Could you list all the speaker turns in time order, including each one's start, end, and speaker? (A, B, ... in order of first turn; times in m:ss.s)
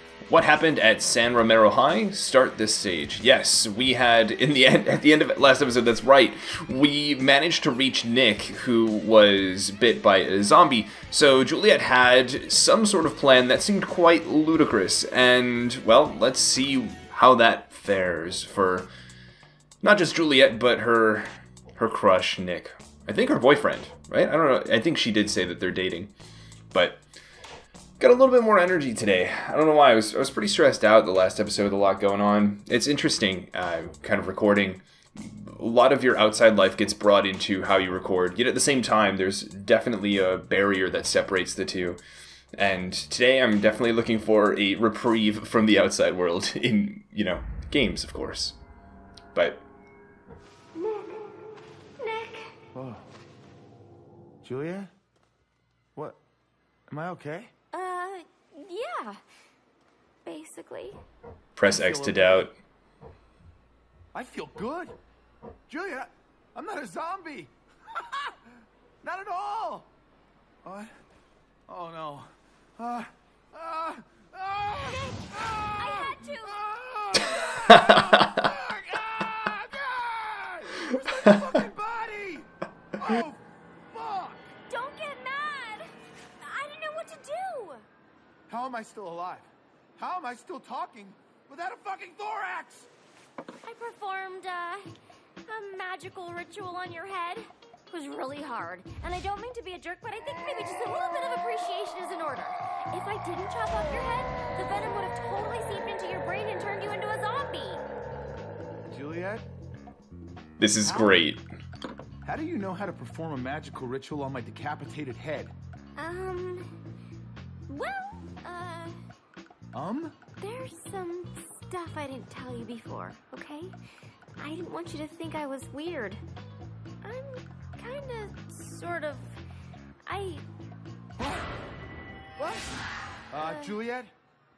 0:00.3-0:18.9 A
0:19.8-0:26.1 A
0:26.7-0:27.0 A
0:28.0-0:42.0 A
0:42.5-0:48.5 A
0:49.3-0:49.6 A
0:50.7-0:52.5 B
0:52.7-0:53.0 C
0:54.4-0:54.9 C
0:56.9-0:57.5 C
0:57.7-0:59.2 B
1:00.2-1:01.0 B
1:01.6-1:02.5 A
1:01.6-1:02.4 C
1:04.1-1:05.0 C
1:05.7-1:08.3 C
1:09.0-1:09.9 C
1:10.6-1:10.9 C
1:11.7-1:24.5 C
1:15.7-1:16.7 B
1:17.7-1:18.3 A
1:24.7-1:27.8 B
1:28.5-1:32.9 C
1:33.6-1:34.9 B
1:35.5-1:47.8 B
1:48.8-1:49.5 C
1:50.6-1:51.4 A
1:50.8-1:51.2 C
1:52.2-1:55.5 C
1:56.0-1:56.8 B
1:57.7-1:59.0 B
1:59.7-2:00.2 C
2:00.4-2:03.7 B
2:04.4-2:06.2 B
2:07.0-2:09.3 B
2:10.0-2:10.4 B
2:12.4-2:12.7 B
2:13.3-2:14.1 C
2:13.3-2:13.8 B